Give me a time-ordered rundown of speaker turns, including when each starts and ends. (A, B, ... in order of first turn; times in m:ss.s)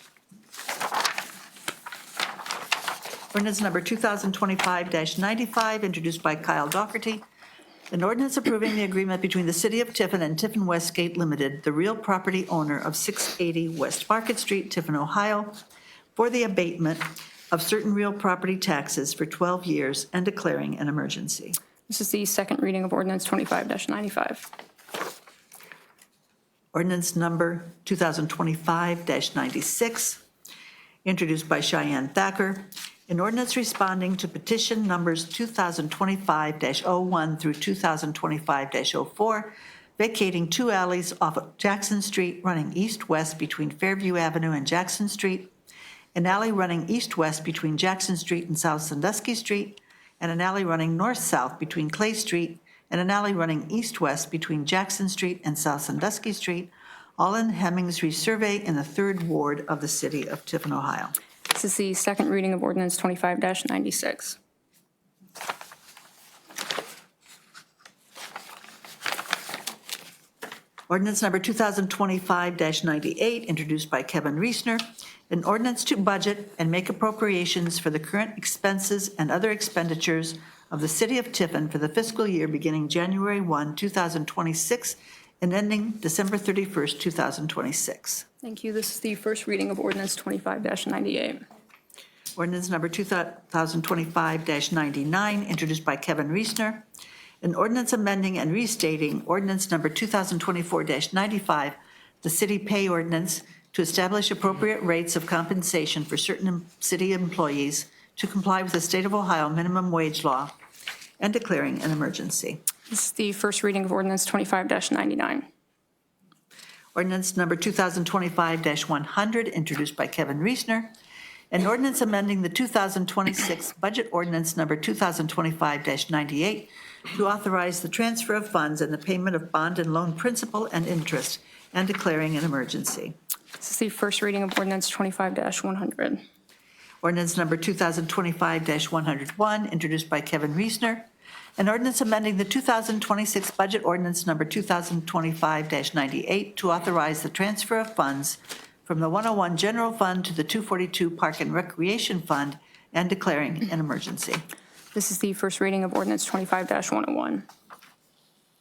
0:03.3-0:07.2 A
0:07.9-0:15.6 A
0:16.1-0:21.6 A
0:21.9-0:24.5 B
0:26.7-0:30.2 A
0:31.0-0:45.5 A
0:46.1-1:01.1 A
1:01.5-1:04.4 B
1:10.9-1:28.2 A
1:28.4-1:31.4 B
1:32.3-1:36.8 A
1:37.4-1:50.5 A
1:51.2-1:52.6 A
1:52.9-1:55.5 B
1:56.9-2:00.9 A
2:01.5-2:13.1 A
2:13.6-2:16.2 B
2:17.0-2:34.4 A
2:34.9-2:37.5 B